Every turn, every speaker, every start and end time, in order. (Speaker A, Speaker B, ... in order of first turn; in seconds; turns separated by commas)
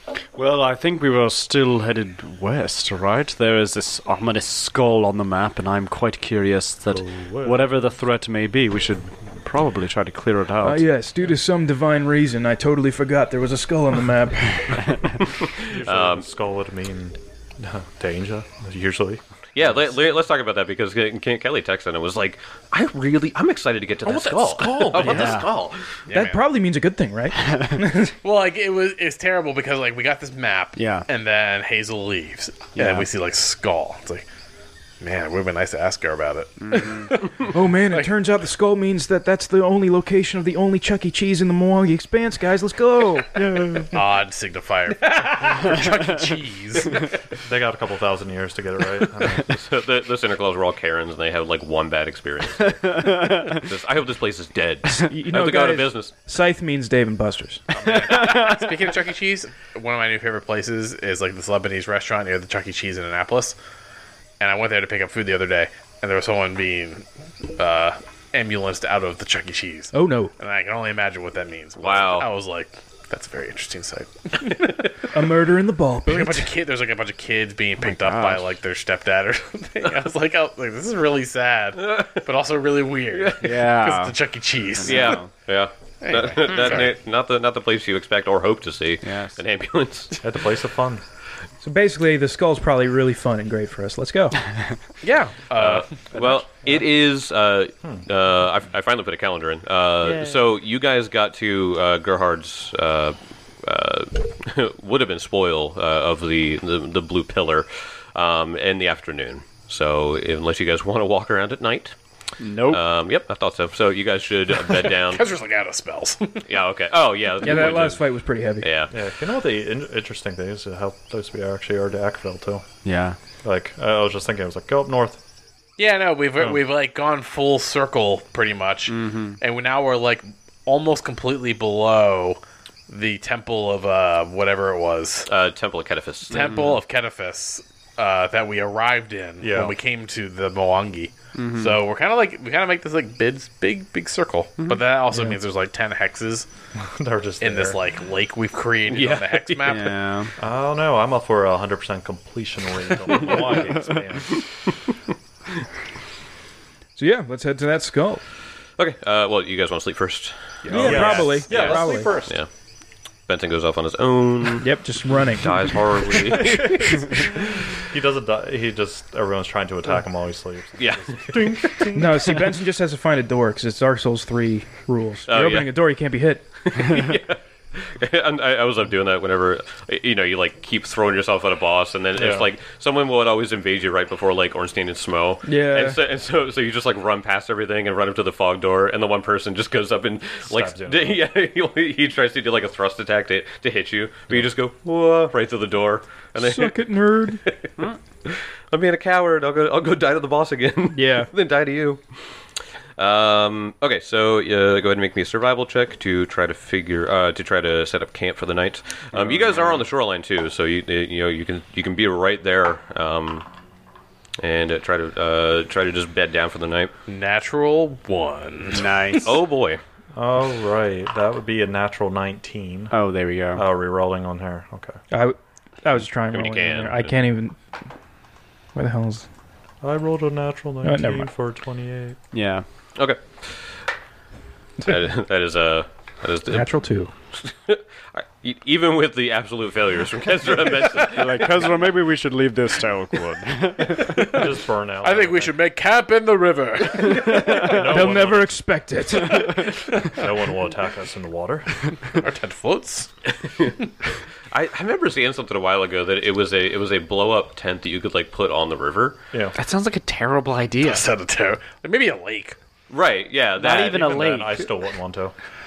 Speaker A: 0.3-10.8, Speaker B: 6.9-7.7, Speaker C: 10.6-15.0, Speaker D: 15.4-16.2, Speaker B: 15.6-19.2, Speaker D: 19.5-25.9, Speaker B: 24.0-25.4, Speaker A: 24.9-25.5, Speaker E: 26.1-26.4, Speaker C: 26.1-28.1, Speaker A: 27.4-27.8, Speaker E: 28.2-34.2, Speaker A: 30.8-31.1, Speaker A: 32.7-33.1, Speaker E: 35.0-38.1, Speaker A: 36.6-37.1, Speaker C: 37.5-43.5, Speaker E: 43.9-47.1, Speaker B: 47.4-49.6, Speaker D: 49.4-56.1, Speaker A: 52.8-53.6, Speaker C: 55.0-57.7, Speaker E: 57.7-63.5, Speaker B: 57.8-58.1, Speaker A: 57.9-58.7, Speaker E: 64.4-74.9, Speaker C: 69.9-70.3, Speaker D: 71.8-72.3, Speaker C: 75.1-76.5, Speaker E: 76.1-85.2, Speaker A: 77.8-78.5, Speaker D: 81.8-82.2, Speaker D: 83.1-83.5, Speaker A: 83.4-84.2, Speaker A: 84.8-85.3, Speaker D: 84.8-90.2, Speaker E: 86.0-86.9, Speaker A: 89.0-89.4, Speaker B: 90.2-91.0, Speaker C: 91.6-94.5, Speaker E: 95.0-95.9, Speaker D: 95.5-112.0, Speaker B: 96.1-96.7, Speaker A: 112.4-112.8, Speaker D: 112.7-115.3, Speaker E: 114.9-116.4, Speaker D: 116.5-118.9, Speaker C: 117.4-118.7, Speaker B: 118.9-122.7, Speaker A: 122.8-123.2, Speaker B: 123.4-125.2, Speaker E: 125.8-135.3, Speaker A: 128.9-129.4, Speaker D: 135.3-136.7, Speaker E: 136.3-146.5, Speaker A: 136.4-136.7, Speaker B: 139.4-139.8, Speaker A: 141.3-141.8, Speaker B: 146.8-147.8, Speaker E: 147.4-149.9, Speaker D: 148.9-149.7, Speaker A: 149.6-150.3, Speaker B: 150.4-154.4, Speaker C: 156.9-158.2, Speaker D: 158.8-162.5, Speaker B: 160.7-162.4, Speaker C: 160.7-162.1, Speaker D: 163.3-164.8, Speaker C: 164.6-166.7, Speaker D: 165.3-167.3, Speaker B: 166.6-167.0, Speaker B: 167.9-172.4, Speaker D: 170.8-171.9, Speaker C: 171.9-176.9, Speaker D: 175.3-175.7, Speaker D: 176.7-197.7, Speaker B: 182.2-182.5, Speaker C: 185.4-186.0, Speaker B: 190.5-191.2, Speaker C: 196.3-197.4, Speaker D: 198.2-202.0, Speaker C: 200.9-201.3, Speaker D: 203.0-213.5, Speaker D: 214.4-216.9, Speaker E: 217.1-218.9, Speaker A: 218.7-219.3, Speaker D: 219.2-219.8, Speaker B: 220.1-222.9, Speaker A: 222.9-223.7, Speaker B: 223.5-225.0, Speaker C: 225.1-227.6, Speaker D: 226.3-227.1, Speaker C: 228.7-229.3, Speaker B: 229.8-232.2, Speaker C: 230.8-231.3, Speaker A: 232.3-232.6, Speaker D: 232.9-233.8, Speaker D: 234.8-236.7, Speaker C: 236.5-237.1, Speaker D: 237.4-241.7, Speaker A: 241.0-244.3, Speaker B: 244.2-245.5, Speaker E: 244.2-244.5, Speaker E: 245.0-247.8, Speaker A: 247.2-247.8, Speaker B: 247.5-248.6, Speaker C: 247.6-249.7, Speaker B: 249.4-252.1, Speaker E: 252.1-253.1, Speaker D: 254.5-259.2, Speaker A: 259.5-261.1, Speaker E: 260.8-262.6, Speaker D: 262.9-264.4, Speaker A: 263.6-264.7, Speaker B: 263.9-265.3